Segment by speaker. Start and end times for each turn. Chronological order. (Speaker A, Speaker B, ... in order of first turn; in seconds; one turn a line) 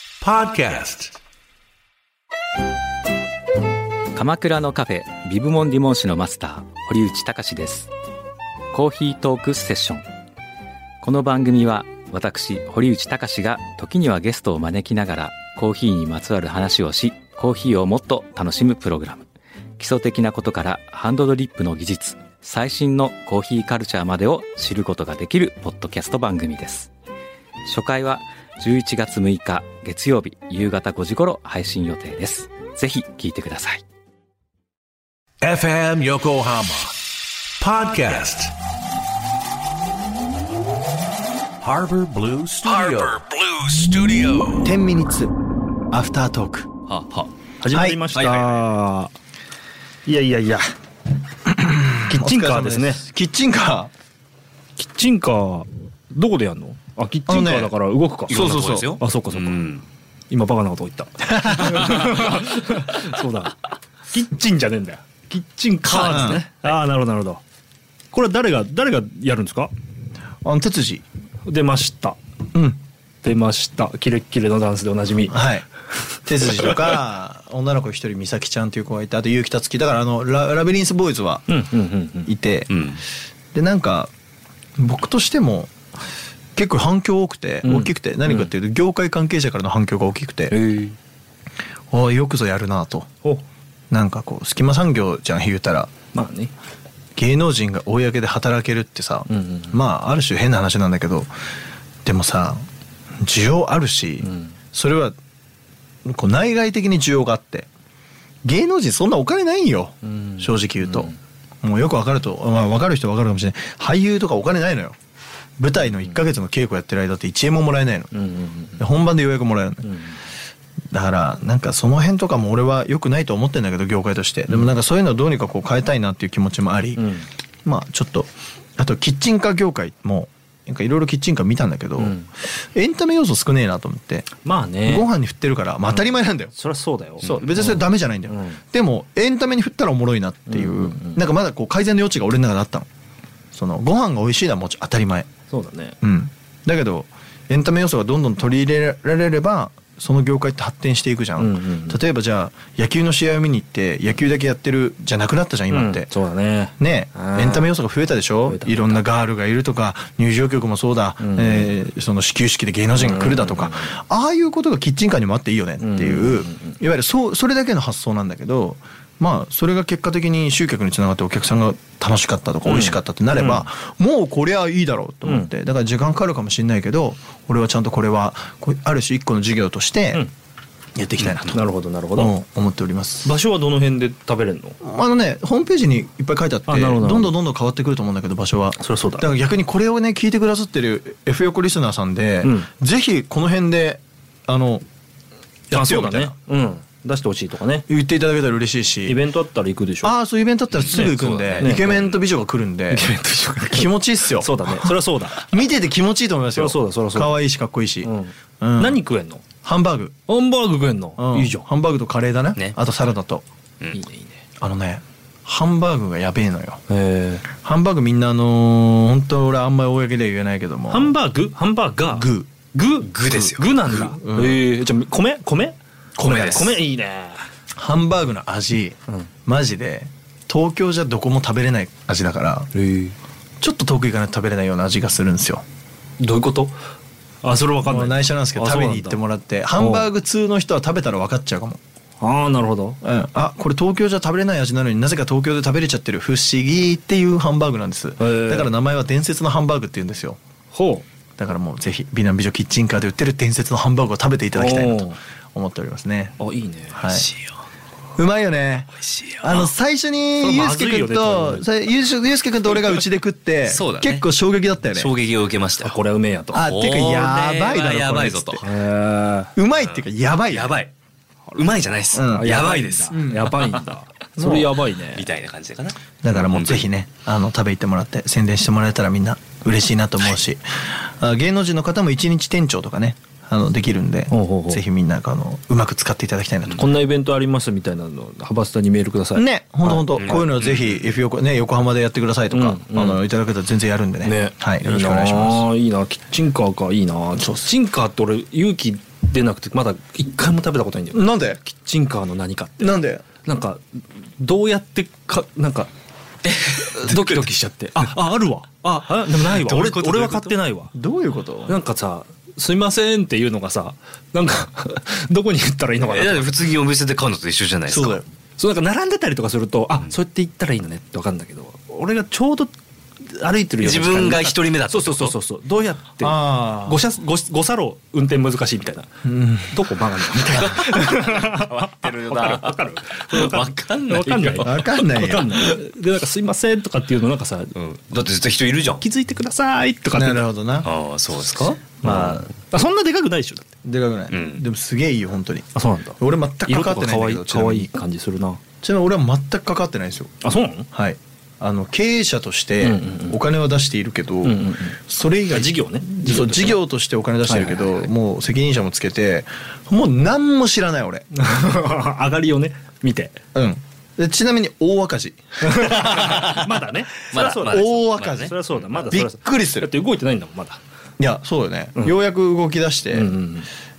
Speaker A: 0.2-1.1
Speaker B: 4.1-7.9
Speaker B: 8.7-10.0
Speaker B: 11.0-19.2
Speaker B: 19.8-26.9
Speaker B: 27.6-33.8
Speaker A: 35.4-36.9
Speaker A: 37.6-38.5
Speaker A: 41.6-43.1
Speaker C: 43.3-43.8
Speaker A: 43.8-44.6
Speaker D: 44.6-45.3
Speaker D: 45.9-46.7
Speaker C: 46.9-47.3
Speaker E: 47.6-49.1
Speaker D: 47.7-48.0
Speaker C: 48.1-48.6
Speaker E: 50.0-50.7
Speaker D: 51.9-53.9
Speaker E: 52.0-53.0
Speaker E: 54.8-59.7
Speaker D: 57.3-57.7
Speaker D: 58.3-58.9
Speaker C: 58.3-59.8
Speaker E: 60.3-67.4
Speaker D: 61.2-61.9
Speaker C: 65.8-66.4
Speaker D: 66.0-66.4
Speaker E: 68.1-69.7
Speaker D: 70.4-71.0
Speaker E: 71.5-72.2
Speaker D: 72.5-72.8
Speaker E: 73.2-75.4
Speaker D: 75.3-75.7
Speaker D: 76.2-81.6
Speaker E: 81.5-82.3
Speaker D: 82.2-82.7
Speaker C: 82.7-83.0
Speaker D: 83.5-84.1
Speaker D: 84.8-85.7
Speaker D: 86.5-90.6
Speaker E: 87.6-88.5
Speaker E: 90.5-91.0
Speaker D: 91.9-93.1
Speaker D: 93.9-95.9
Speaker E: 96.1-96.5
Speaker D: 97.2-101.3
Speaker E: 99.3-99.8
Speaker D: 102.0-102.6
Speaker D: 103.2-105.2
Speaker E: 104.2-104.5
Speaker D: 106.0-107.7
Speaker D: 108.4-114.9
Speaker E: 110.1-111.2
Speaker D: 115.6-118.1
Speaker E: 118.1-118.8
Speaker D: 118.8-119.9
Speaker E: 119.8-120.2
Speaker D: 120.9-127.1
Speaker E: 127.0-127.3
Speaker D: 127.6-134.3
Speaker E: 132.0-132.3
Speaker E: 134.4-135.1
Speaker D: 134.8-136.5
Speaker E: 135.9-138.6
Speaker D: 137.2-142.9
Speaker E: 140.5-141.2
Speaker D: 143.5-145.3
Speaker E: 145.5-146.0
Speaker D: 146.0-156.1
Speaker E: 151.4-152.0
Speaker E: 155.7-157.7
Speaker D: 156.8-180.2
Speaker E: 158.4-159.0
Speaker E: 161.2-161.7
Speaker E: 162.9-163.9
Speaker E: 165.8-166.8
Speaker E: 172.7-173.6
Speaker E: 175.2-175.5
Speaker D: 180.9-181.6
Speaker E: 181.5-182.3
Speaker D: 182.2-183.3
Speaker E: 183.2-184.8
Speaker D: 184.8-194.8
Speaker E: 186.7-187.3
Speaker E: 188.8-189.3
Speaker E: 192.4-192.7
Speaker D: 195.7-196.3
Speaker E: 195.7-197.9
Speaker D: 197.9-199.2
Speaker E: 199.1-200.1
Speaker D: 200.0-209.0
Speaker C: 200.7-202.0
Speaker E: 200.8-202.2
Speaker E: 202.9-205.5
Speaker E: 206.6-207.4
Speaker E: 208.0-209.4
Speaker D: 209.6-210.1
Speaker E: 210.3-211.7
Speaker D: 211.2-213.4
Speaker E: 213.9-214.4
Speaker D: 214.6-216.8
Speaker E: 216.9-217.5
Speaker D: 217.5-221.2
Speaker E: 220.9-227.4
Speaker D: 222.1-222.5
Speaker C: 223.0-223.8
Speaker D: 223.8-224.6
Speaker C: 226.2-226.8
Speaker D: 227.8-232.7
Speaker E: 232.7-233.1
Speaker D: 233.6-235.6
Speaker E: 236.2-236.8
Speaker E: 237.4-239.2
Speaker D: 237.8-241.8
Speaker E: 239.8-240.1
Speaker E: 242.2-243.0
Speaker D: 243.0-250.4
Speaker E: 248.2-248.7
Speaker E: 250.7-251.0
Speaker D: 251.4-256.4
Speaker E: 254.5-255.2
Speaker E: 256.4-257.0
Speaker D: 256.9-257.3
Speaker D: 258.1-265.1
Speaker C: 259.1-259.7
Speaker E: 260.4-261.7
Speaker C: 263.6-264.2
Speaker C: 264.9-265.9
Speaker E: 265.8-266.7
Speaker D: 266.5-268.6
Speaker C: 266.5-268.6
Speaker E: 268.6-269.5
Speaker D: 269.6-270.8
Speaker C: 269.8-270.9
Speaker C: 271.5-273.6
Speaker E: 271.6-275.3
Speaker D: 272.1-272.5
Speaker D: 273.1-273.6
Speaker D: 274.4-274.8
Speaker C: 275.1-276.9
Speaker D: 276.2-287.0
Speaker E: 284.3-284.8
Speaker E: 286.7-290.1
Speaker D: 289.3-295.7
Speaker C: 290.1-291.0
Speaker E: 292.5-293.2
Speaker E: 294.2-303.8
Speaker D: 297.4-297.7
Speaker D: 301.1-301.6
Speaker D: 302.8-303.2
Speaker E: 304.4-305.9
Speaker C: 306.4-307.5
Speaker E: 306.9-310.9
Speaker C: 309.2-310.6
Speaker D: 310.9-311.8
Speaker E: 311.6-316.6
Speaker C: 316.0-318.2
Speaker D: 317.9-318.2
Speaker E: 318.6-322.7
Speaker E: 323.2-337.7
Speaker C: 323.8-325.3
Speaker D: 326.2-327.0
Speaker D: 329.2-331.0
Speaker C: 330.6-334.9
Speaker D: 334.6-335.6
Speaker C: 337.7-339.0
Speaker E: 339.0-340.5
Speaker D: 340.1-340.9
Speaker C: 340.8-342.4
Speaker E: 341.9-343.7
Speaker D: 343.8-345.7
Speaker C: 344.3-344.6
Speaker E: 345.7-348.6
Speaker D: 346.2-347.9
Speaker D: 348.8-350.3
Speaker E: 350.4-350.9
Speaker D: 350.9-361.2
Speaker E: 352.8-353.4
Speaker E: 354.4-356.8
Speaker E: 357.4-358.0
Speaker E: 361.3-363.4
Speaker D: 363.5-366.7
Speaker E: 365.6-370.8
Speaker C: 367.3-368.5
Speaker D: 367.4-368.5
Speaker D: 369.0-369.9
Speaker D: 371.2-373.4
Speaker E: 373.1-373.7